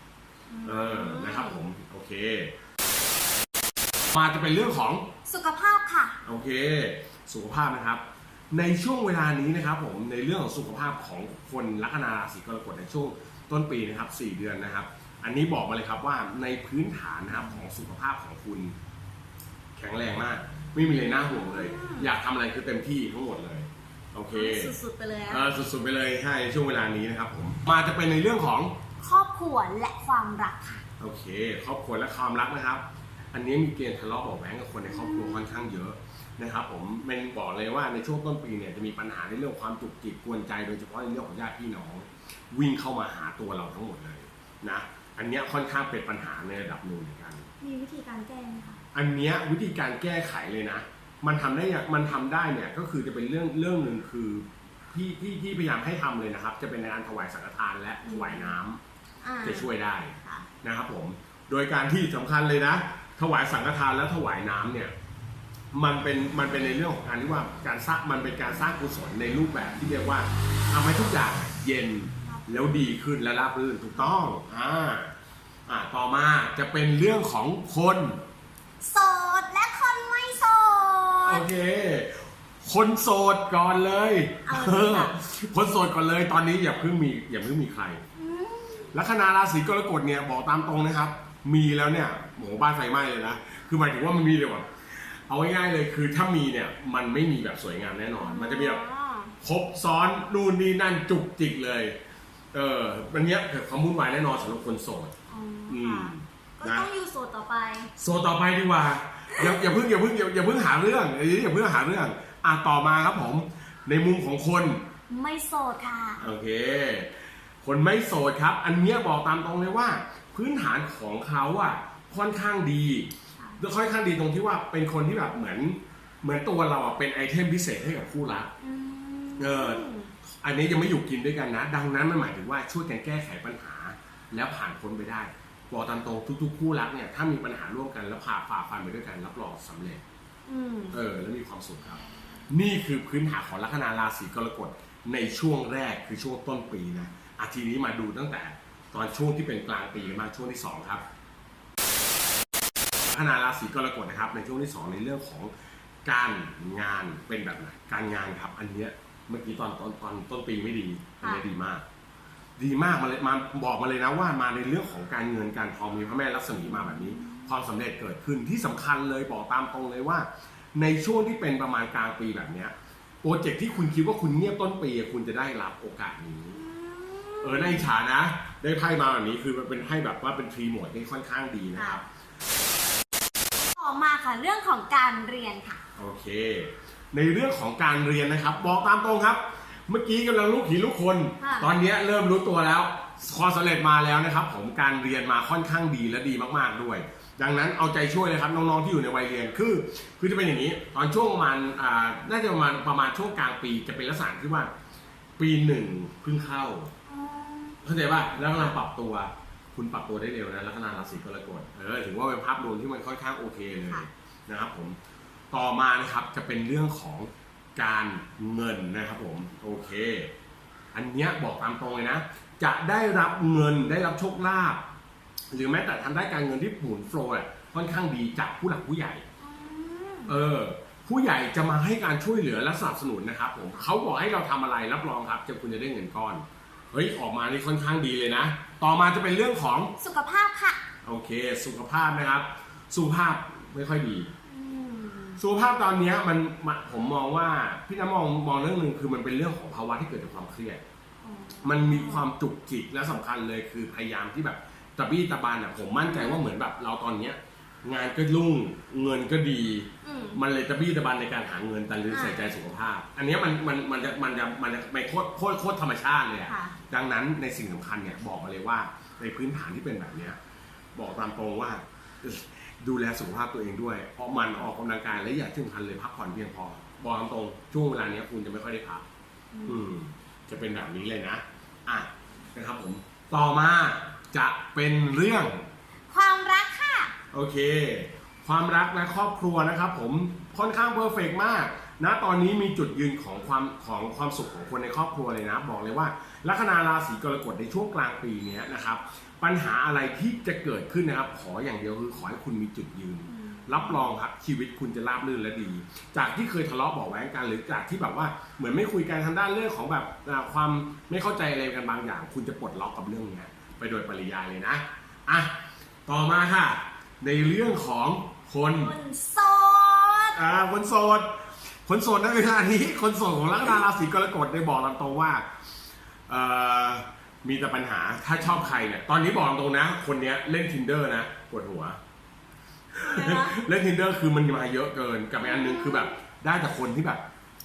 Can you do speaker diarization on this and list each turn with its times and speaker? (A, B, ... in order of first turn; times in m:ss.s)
0:00.5-0:01.6 A
0:00.6-0:02.5 B
0:04.1-0:05.1 B
0:05.2-0:06.2 A
0:06.2-0:18.8 B
0:19.8-0:24.7 B
0:21.0-0:22.1 A
0:24.3-0:25.5 A
0:25.3-0:28.8 B
0:29.0-0:30.8 A
0:31.0-0:47.5 B
0:34.9-0:35.5 A
0:47.6-0:48.8 A
0:48.9-0:58.8 B
0:58.0-0:58.6 A
0:59.2-0:59.7 A
0:59.4-1:04.9 B
1:05.7-1:15.1 B
1:15.7-1:18.2 B
1:18.8-1:21.4 A
1:21.2-1:28.0 B
1:24.5-1:25.2 A
1:28.2-1:28.9 A
1:28.9-1:38.8 B
1:38.2-1:39.3 A
1:39.4-1:42.0 B
1:42.5-1:45.1 B
1:45.3-1:47.9 A
1:45.7-1:46.9 B
1:48.0-1:54.8 B
1:49.4-1:49.6 A
1:55.1-1:56.2 A
1:56.2-2:08.5 B
2:08.6-2:10.1 A
2:09.4-2:20.0 B
2:20.5-2:21.0 A
2:20.9-2:31.0 B
2:33.1-2:35.5 B
2:36.0-2:41.8 B
2:42.6-2:56.6 B
2:46.6-2:47.5 A
2:56.6-2:57.9 A
2:57.4-3:02.0 B
3:01.8-3:02.0 A
3:03.8-3:05.8 A
3:06.0-3:24.7 B
3:11.4-3:11.7 A
3:25.4-3:26.9 B
3:27.1-3:27.8 A
3:27.8-3:35.0 B
3:30.9-3:31.2 A
3:35.5-3:40.3 B
3:40.9-3:44.8 B
3:45.5-3:49.2 B
3:49.4-3:50.4 A
3:50.3-3:59.9 B
4:00.0-4:00.8 A
4:01.0-4:04.3 B
4:04.5-4:05.4 A
4:05.4-4:10.8 B
4:11.2-4:12.3 A
4:11.6-4:30.4 B
4:16.0-4:16.4 A
4:20.0-4:20.4 A
4:22.1-4:22.5 A
4:26.5-4:26.8 A
4:31.0-4:39.0 B
4:39.5-4:39.9 A
4:39.7-4:45.6 B
4:46.1-4:47.1 A
4:47.3-5:15.5 B
5:03.4-5:04.1 A
5:16.1-5:19.0 B
5:18.8-5:20.4 A
5:20.3-5:21.3 B
5:21.9-5:25.4 B
5:26.3-5:32.0 B
5:32.9-5:37.2 B
5:33.1-5:33.6 A
5:35.4-5:36.1 A